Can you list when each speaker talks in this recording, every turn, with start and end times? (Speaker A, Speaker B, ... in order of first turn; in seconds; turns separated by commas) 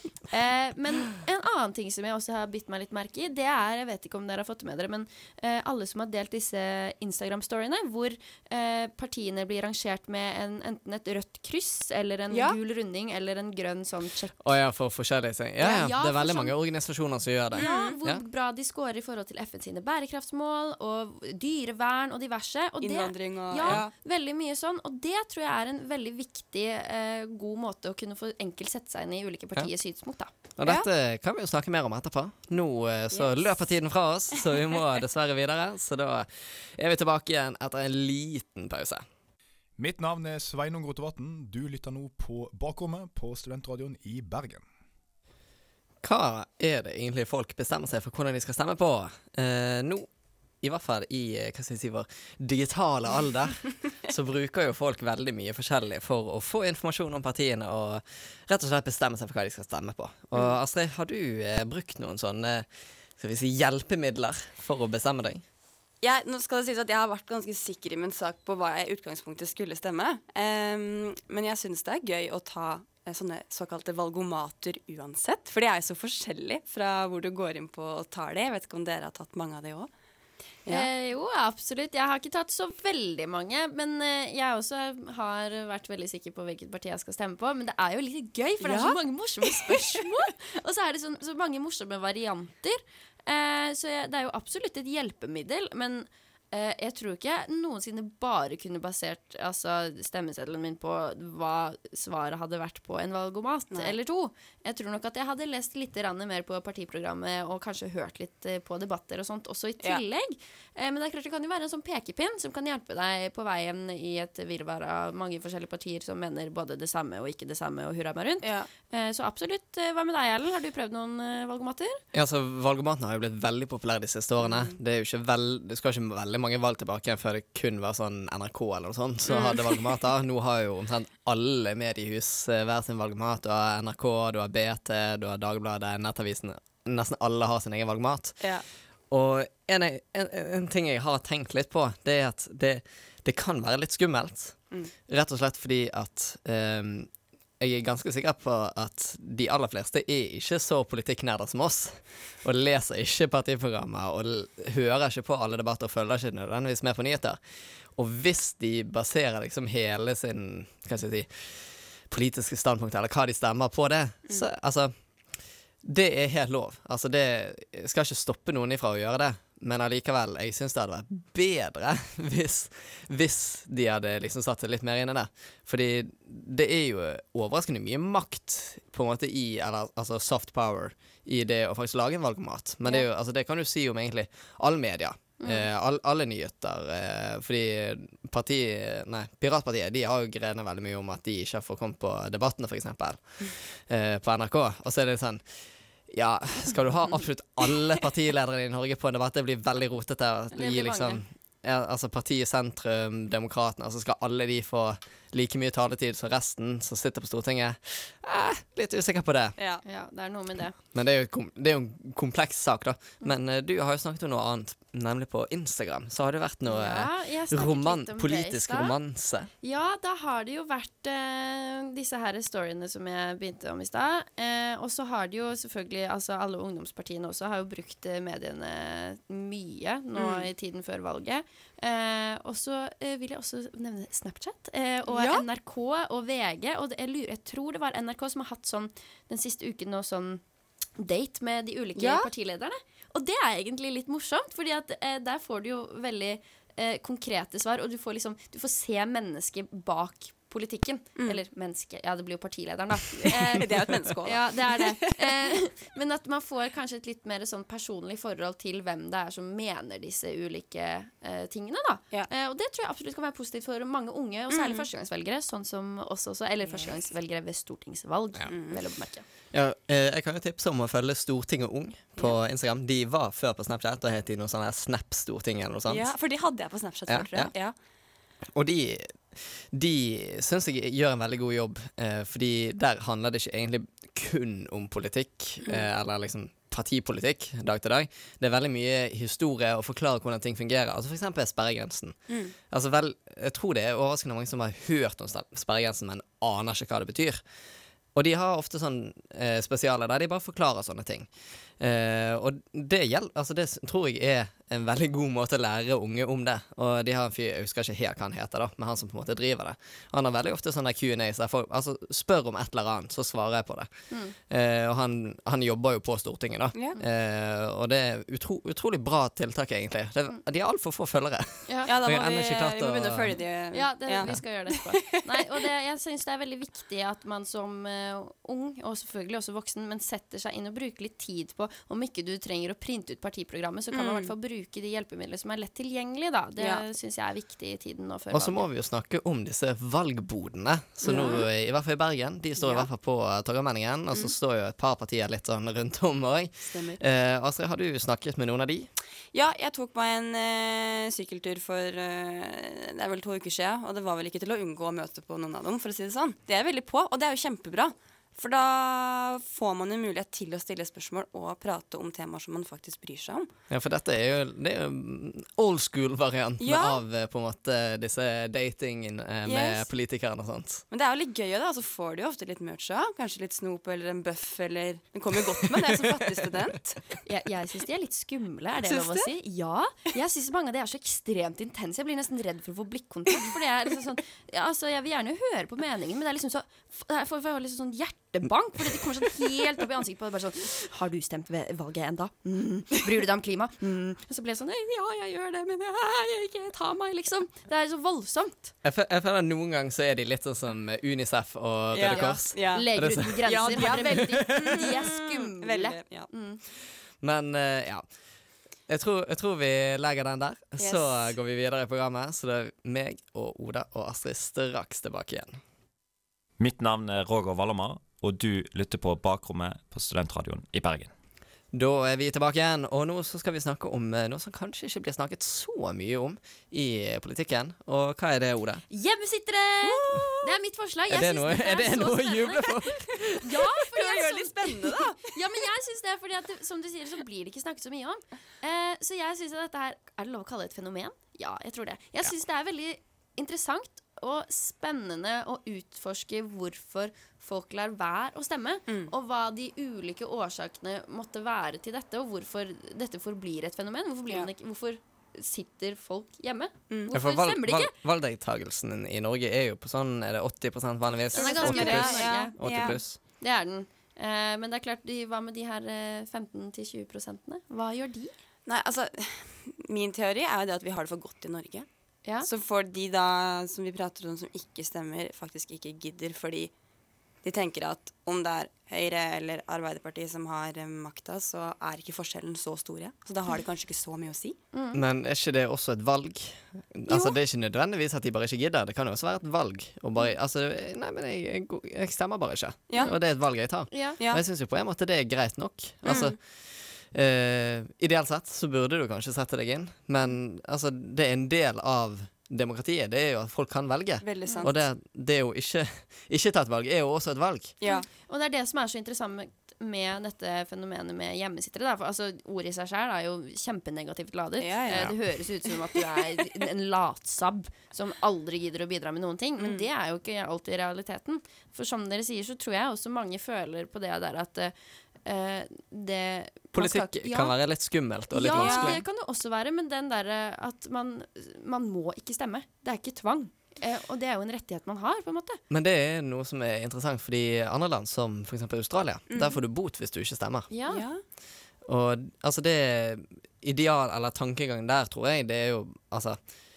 Speaker A: 0.2-14.5, Speaker B: 12.3-12.6, Speaker C: 14.4-18.2, Speaker A: 15.6-16.5, Speaker A: 17.5-30.3, Speaker B: 17.6-17.9, Speaker B: 22.8-23.9, Speaker C: 30.6-39.0, Speaker B: 33.1-33.5, Speaker B: 34.4-34.6, Speaker D: 39.8-44.6, Speaker C: 46.0-50.1, Speaker C: 50.6-65.4, Speaker B: 66.0-79.9, Speaker A: 80.7-122.0, Speaker B: 88.6-90.0, Speaker B: 118.4-118.7, Speaker C: 122.1-138.4, Speaker B: 129.3-129.8, Speaker C: 139.1-157.4, Speaker C: 157.9-164.9, Speaker C: 165.8-195.4, Speaker A: 185.4-185.7, Speaker C: 196.1-209.6, Speaker A: 200.5-201.2, Speaker B: 209.6-209.8, Speaker A: 209.8-210.7, Speaker C: 210.9-219.5, Speaker A: 216.7-218.9, Speaker A: 219.6-240.4, Speaker B: 230.2-230.5, Speaker B: 235.1-235.4, Speaker A: 241.0-269.2, Speaker B: 242.0-242.3, Speaker B: 253.2-255.5, Speaker B: 264.5-264.9, Speaker B: 268.5-268.8, Speaker C: 269.5-276.1, Speaker B: 275.9-277.7, Speaker C: 277.1-277.5, Speaker C: 278.5-292.2, Speaker B: 292.3-292.5, Speaker C: 292.7-297.4, Speaker C: 298.1-301.3, Speaker C: 301.8-313.9, Speaker C: 314.4-323.4, Speaker B: 321.9-325.1, Speaker A: 323.7-338.7, Speaker B: 333.9-334.3, Speaker B: 336.6-336.8, Speaker C: 338.3-348.9, Speaker B: 341.0-341.5, Speaker A: 341.1-341.4, Speaker B: 342.6-342.9, Speaker B: 346.6-347.0, Speaker B: 349.3-363.5, Speaker C: 363.7-370.8, Speaker B: 366.6-367.0, Speaker B: 369.4-369.9, Speaker B: 370.9-377.0, Speaker A: 377.2-398.7, Speaker B: 378.8-379.3, Speaker C: 398.8-404.9, Speaker B: 401.9-402.8, Speaker A: 402.0-406.6, Speaker B: 403.4-406.3, Speaker C: 407.2-408.0, Speaker C: 408.9-415.6, Speaker B: 410.8-411.3, Speaker E: 416.6-421.1, Speaker C: 421.7-428.8, Speaker A: 428.9-457.9, Speaker B: 429.8-430.4, Speaker C: 431.1-433.4, Speaker B: 433.8-435.3, Speaker C: 457.1-463.2, Speaker B: 461.3-463.0, Speaker A: 461.3-468.3, Speaker B: 468.6-471.9, Speaker B: 472.4-476.7, Speaker B: 477.4-484.6, Speaker A: 484.7-485.0, Speaker C: 484.9-496.4, Speaker A: 487.1-487.4, Speaker A: 493.9-494.2, Speaker B: 496.0-496.3, Speaker C: 497.1-507.7, Speaker B: 504.2-504.7, Speaker A: 507.8-524.7, Speaker B: 514.6-515.1, Speaker B: 519.6-519.9, Speaker A: 525.2-527.5, Speaker C: 526.7-529.0, Speaker A: 528.3-535.6, Speaker B: 528.5-529.0, Speaker C: 535.7-540.7, Speaker B: 539.3-539.6, Speaker A: 540.7-541.0, Speaker B: 540.9-541.2, Speaker C: 541.9-546.4